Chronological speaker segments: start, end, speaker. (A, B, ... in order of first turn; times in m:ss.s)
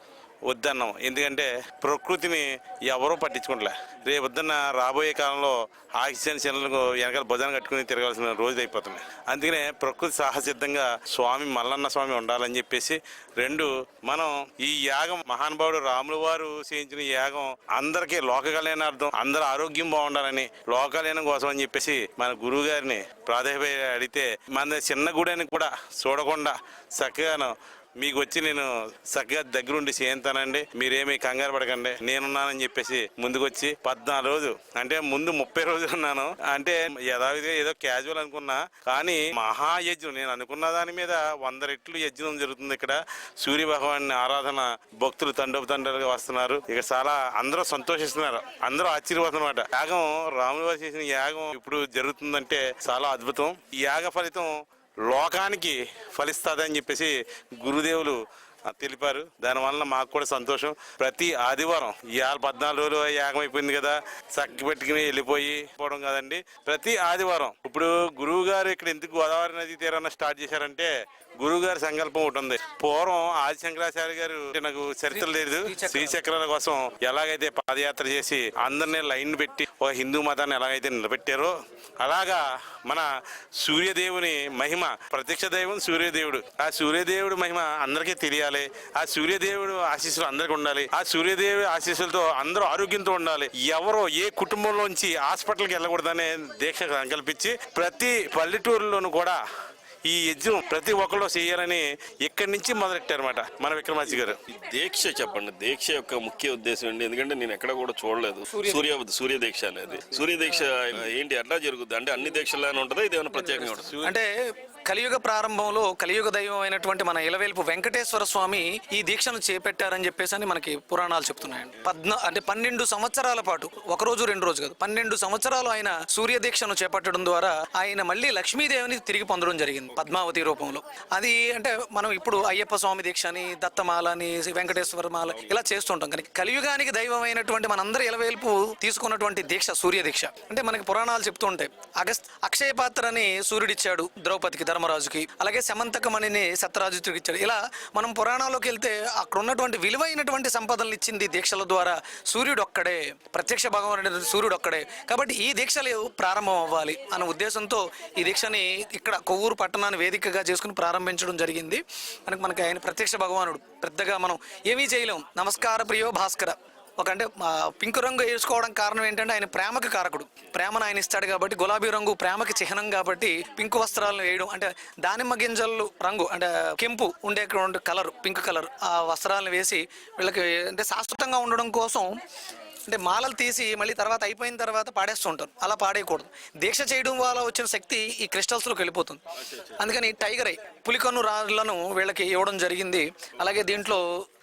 0:00.5-0:54.5 A
0:55.1-0:58.2 A
0:58.7-1:10.9 A
1:11.4-1:23.1 A
1:15.1-1:16.2 B
1:23.6-1:39.4 A
1:40.0-1:44.4 A
1:44.5-1:54.0 C
1:48.5-1:48.8 B
1:53.4-1:54.3 B
1:53.9-1:54.2 A
1:54.9-3:02.1 B
3:02.9-3:09.2 B
3:09.4-3:09.8 C
3:09.8-3:14.0 B